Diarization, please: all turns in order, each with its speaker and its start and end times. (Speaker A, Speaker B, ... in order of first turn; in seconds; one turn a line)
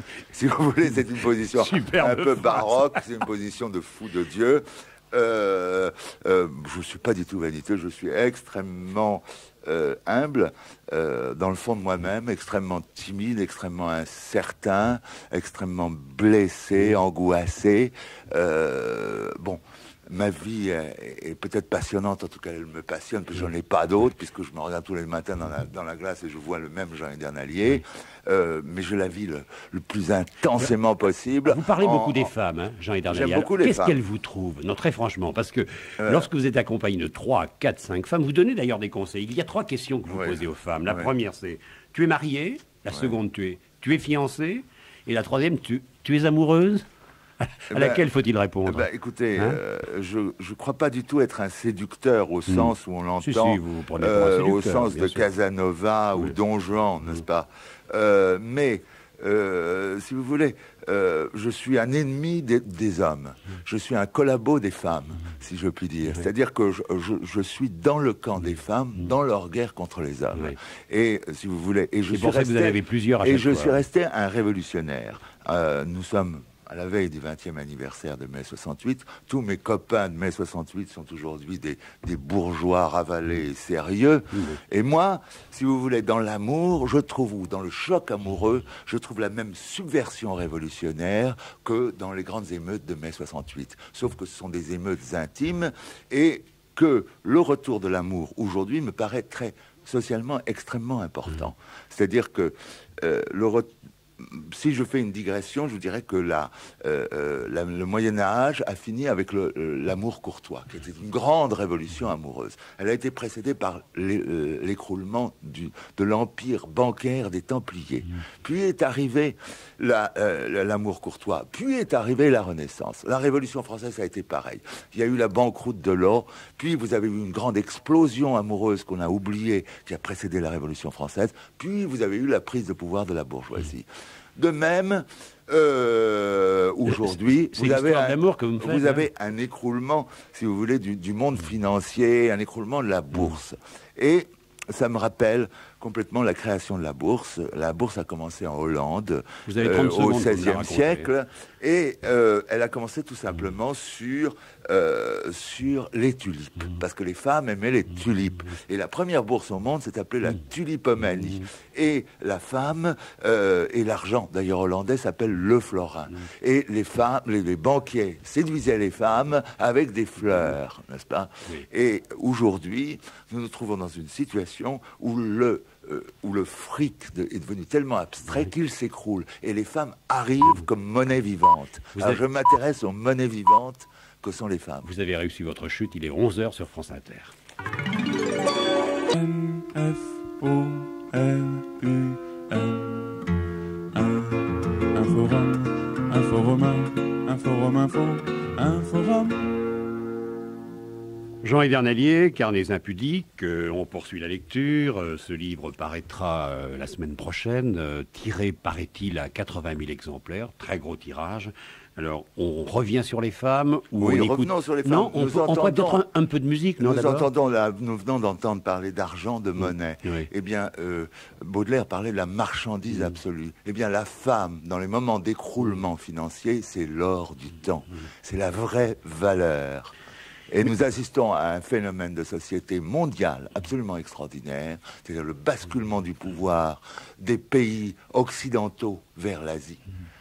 Speaker A: 0.3-32.3
Speaker B: 1.5-2.8
Speaker B: 31.4-46.8
Speaker A: 33.1-34.0
Speaker A: 36.0-36.3
Speaker A: 40.1-41.1
Speaker A: 42.9-43.1
Speaker B: 47.4-48.9
Speaker A: 47.7-48.0
Speaker A: 48.6-133.8
Speaker B: 53.2-55.2
Speaker B: 72.1-73.8
Speaker B: 84.3-84.6
Speaker A: 134.4-184.9
Speaker B: 136.9-139.1
Speaker B: 149.5-151.1
Speaker B: 184.8-187.3
Speaker C: 189.1-193.1
Speaker C: 193.9-199.5
Speaker B: 201.4-217.3
Speaker A: 214.0-216.0
Speaker A: 216.8-229.9
Speaker B: 219.6-220.3
Speaker A: 230.5-239.8